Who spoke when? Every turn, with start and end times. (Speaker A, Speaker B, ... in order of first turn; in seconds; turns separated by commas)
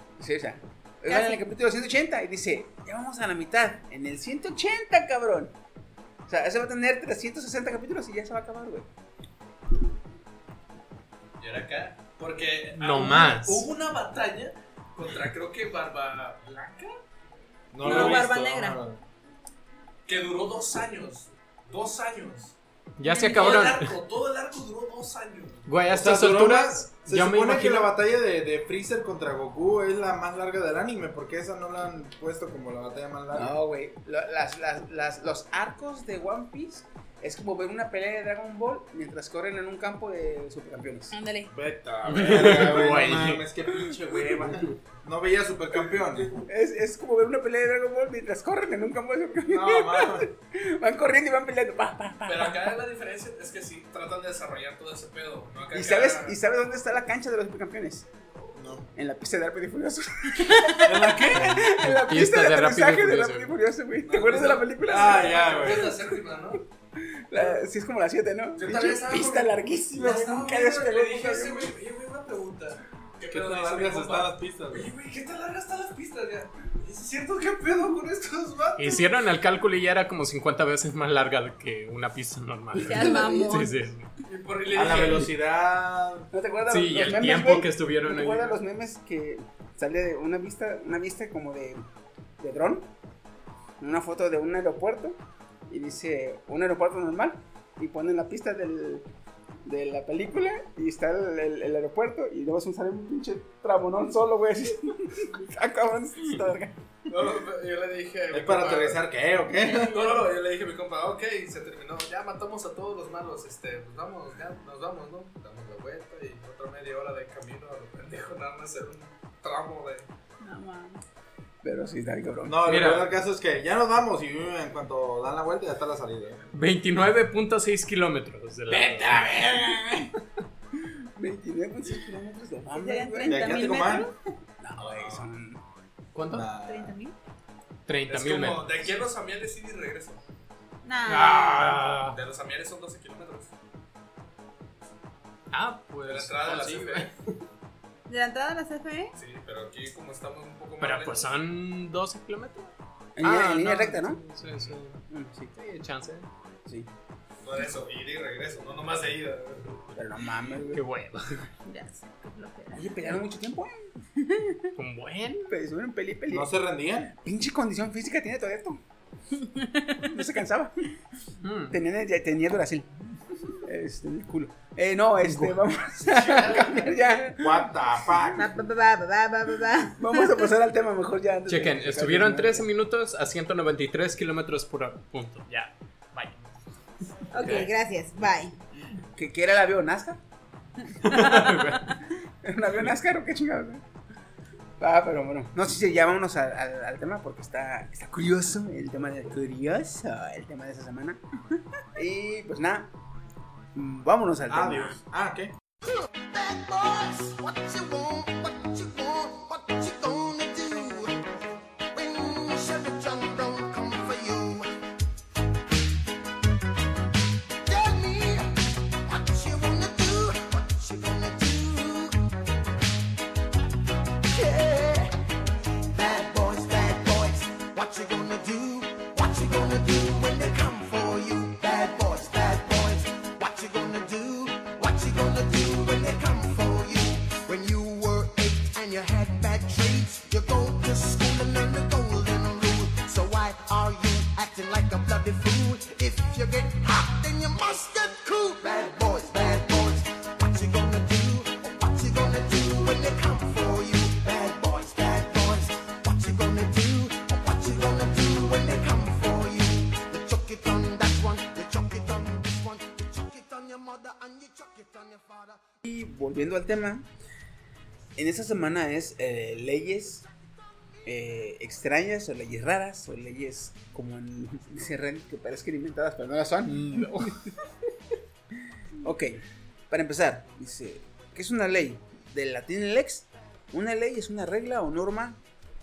Speaker A: 0.2-5.5, Speaker B: 1.1-1.4, Speaker A: 6.3-8.9, Speaker C: 11.4-16.9, Speaker D: 12.8-13.7, Speaker E: 17.7-19.0, Speaker B: 17.8-18.8, Speaker C: 17.8-18.2, Speaker C: 20.1-22.5, Speaker D: 23.0-23.9, Speaker B: 23.1-23.6, Speaker C: 23.3-25.7, Speaker D: 25.7-27.9, Speaker E: 25.9-33.5, Speaker A: 33.3-41.1, Speaker B: 41.1-41.5, Speaker E: 41.5-46.4, Speaker D: 42.1-43.5, Speaker A: 46.4-52.7, Speaker E: 49.5-50.3, Speaker C: 52.3-56.4, Speaker A: 55.7-58.1, Speaker E: 58.5-58.9, Speaker A: 59.0-66.0, Speaker E: 60.8-61.7, Speaker D: 61.8-63.6, Speaker C: 64.1-66.6, Speaker E: 64.9-66.0, Speaker A: 67.1-71.7, Speaker C: 68.6-79.0, Speaker E: 73.3-74.9, Speaker D: 78.8-84.1, Speaker B: 82.8-83.7, Speaker A: 82.9-83.6, Speaker C: 84.2-85.3, Speaker E: 84.7-86.3, Speaker A: 86.3-91.8, Speaker D: 86.7-88.6, Speaker A: 92.4-92.9, Speaker A: 93.8-95.2, Speaker A: 95.7-99.1, Speaker A: 99.7-106.8, Speaker C: 107.1-109.1, Speaker E: 108.3-110.0, Speaker C: 109.7-120.1, Speaker B: 120.4-121.0, Speaker A: 121.6-122.6, Speaker E: 122.5-126.5, Speaker D: 122.7-123.1, Speaker D: 126.5-129.3, Speaker E: 128.7-130.1, Speaker A: 131.2-133.7, Speaker B: 132.7-134.1, Speaker E: 133.3-134.1, Speaker A: 134.6-135.6, Speaker C: 134.8-135.2, Speaker D: 136.2-136.5, Speaker E: 136.3-137.0, Speaker B: 136.6-137.2, Speaker D: 137.9-138.8, Speaker C: 138.1-140.2, Speaker B: 140.8-141.8, Speaker D: 141.1-142.2, Speaker C: 142.1-143.5, Speaker D: 145.5-147.1, Speaker C: 146.1-147.1, Speaker B: 148.1-149.1, Speaker C: 149.2-151.3, Speaker D: 150.8-155.0, Speaker A: 153.2-154.2, Speaker A: 155.1-155.5, Speaker D: 155.5-156.3, Speaker C: 157.4-159.8, Speaker A: 159.9-160.8, Speaker D: 160.7-161.5, Speaker B: 161.7-163.0, Speaker A: 162.7-163.7, Speaker B: 164.2-164.6, Speaker D: 164.8-165.5, Speaker A: 165.5-166.5, Speaker E: 166.3-167.1, Speaker A: 167.1-168.8, Speaker B: 169.4-170.1, Speaker A: 170.0-170.9, Speaker D: 171.4-171.8, Speaker A: 171.7-172.9, Speaker A: 173.6-177.7, Speaker D: 175.3-175.6, Speaker C: 176.2-176.8, Speaker E: 177.4-178.5, Speaker B: 178.3-180.5, Speaker A: 180.0-182.7, Speaker D: 181.5-186.4, Speaker B: 187.3-188.6, Speaker A: 189.2-190.2, Speaker B: 190.9-192.1, Speaker D: 191.0-191.9, Speaker A: 192.4-193.8, Speaker A: 194.8-201.2, Speaker A: 201.9-202.9, Speaker A: 203.7-205.0, Speaker E: 204.5-205.5, Speaker F: 206.3-211.2, Speaker F: 211.9-214.7, Speaker F: 217.7-222.2, Speaker F: 224.3-225.2, Speaker F: 225.9-265.7, Speaker A: 265.8-267.1, Speaker A: 268.2-270.3, Speaker A: 271.1-277.3, Speaker D: 276.7-277.5, Speaker A: 279.0-285.4